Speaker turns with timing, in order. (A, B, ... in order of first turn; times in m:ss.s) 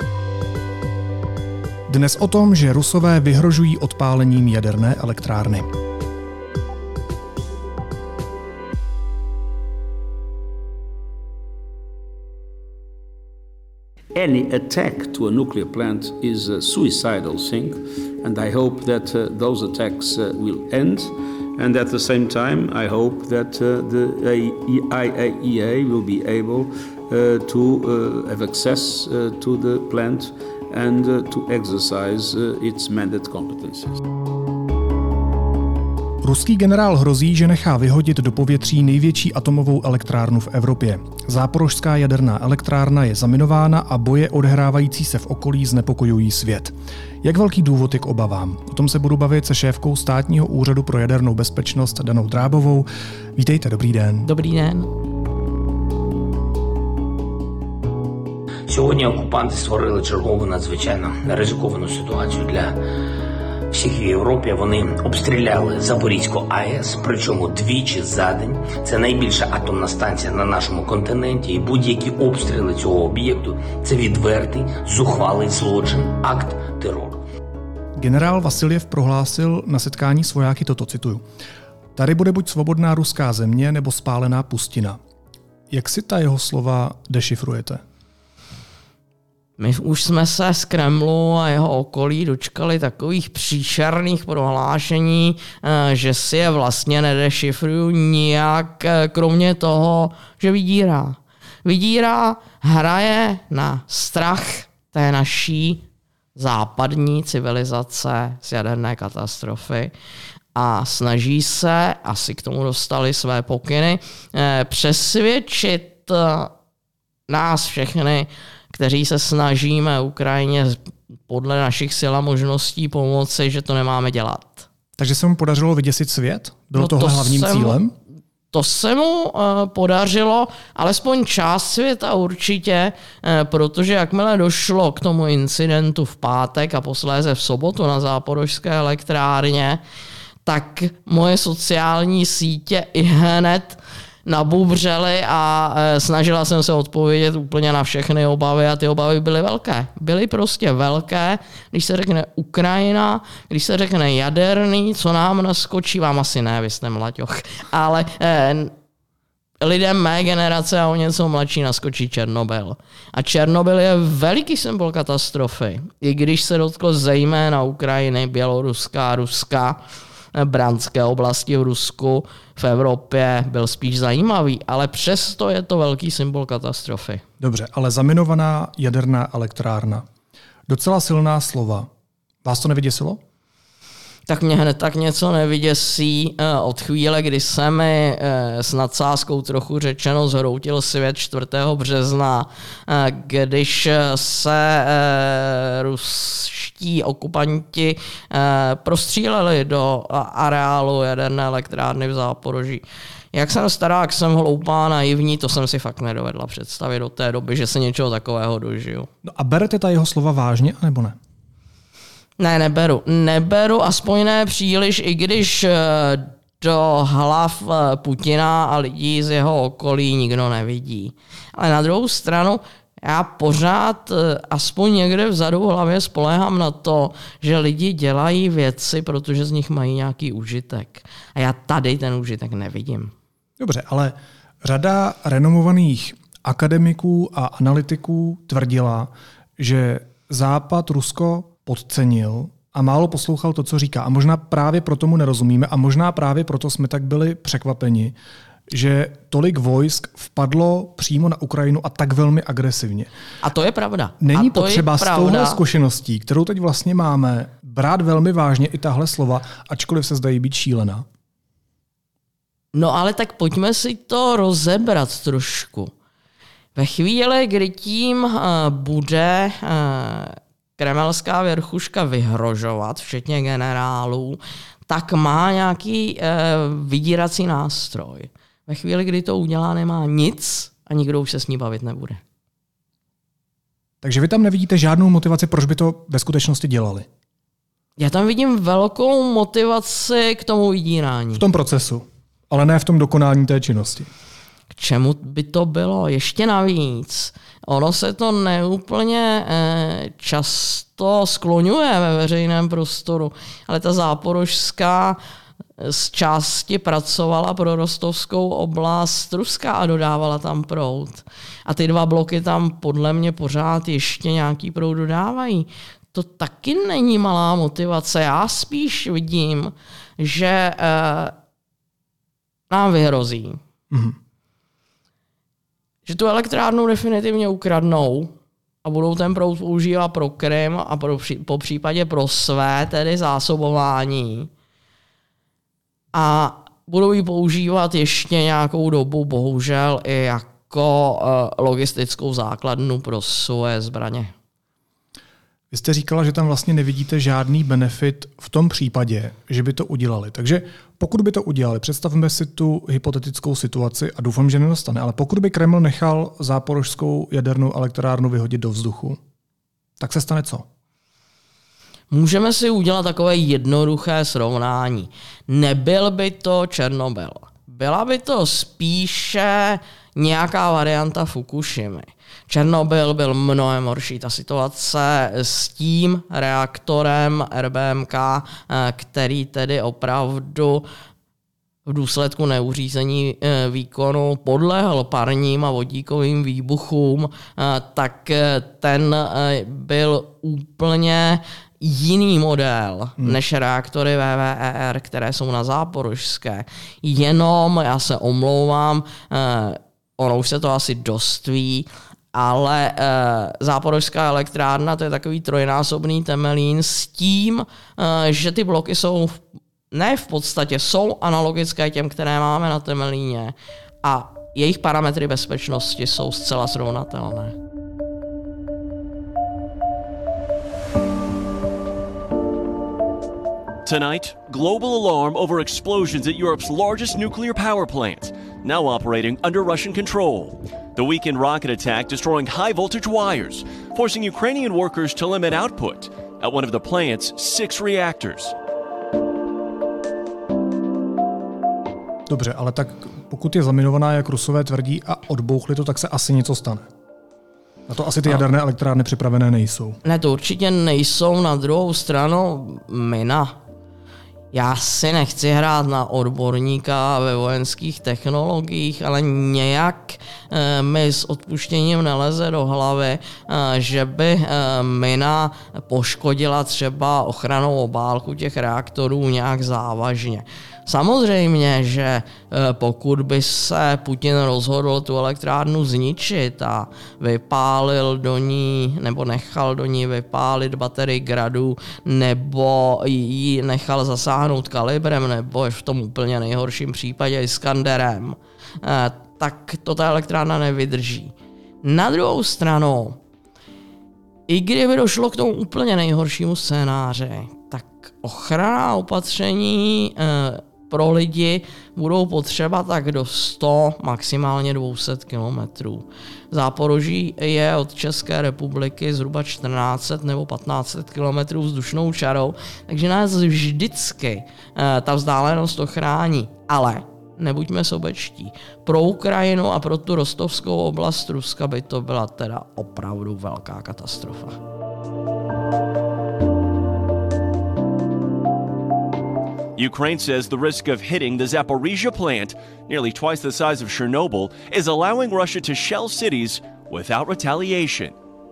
0:01.9-0:05.7 A
0:14.1-0:34.0 B
0:36.2-0:54.3 A
0:54.2-0:54.9 C
0:58.7-1:02.8 D
1:03.7-1:17.2 D
1:18.0-1:21.2 A
1:21.9-1:25.0 A
1:25.7-1:27.8 A
1:29.6-1:45.8 C
1:46.4-1:49.9 C
1:50.5-1:56.5 C
1:57.3-2:04.7 C
2:05.0-2:07.9 A
2:06.7-2:07.8 C
2:08.5-2:19.8 C
2:20.4-2:38.7 C
2:39.6-2:49.8 C
2:50.3-2:57.2 C
2:57.4-3:00.0 A
3:00.7-3:01.9 A
3:02.4-3:03.2 A
3:04.3-3:29.1 C
3:29.2-3:31.2 A
3:32.4-3:53.1 C
3:53.6-4:08.2 A
4:08.7-4:13.1 A
4:13.4-4:15.6 C
4:14.2-4:21.0 A
4:22.7-4:25.9 C
4:26.7-4:42.2 C
4:44.0-4:47.1 A
4:48.0-4:51.4 C
4:51.4-4:54.1 A
4:54.7-5:05.2 C
5:05.8-5:21.3 C
5:22.7-5:23.6 C
5:23.9-5:24.2 A
5:26.0-5:28.3 C
5:28.8-5:34.5 C
5:36.1-5:44.3 C
5:45.7-5:59.2 A
6:00.0-6:00.7 A
6:02.1-6:20.8 C
6:21.8-6:57.5 C
7:03.8-7:18.5 E
7:22.3-7:26.9 A
7:27.9-7:30.0 A
7:30.0-7:33.6 C
7:34.5-8:13.2 C
8:14.5-8:44.6 C
8:49.8-8:58.1 E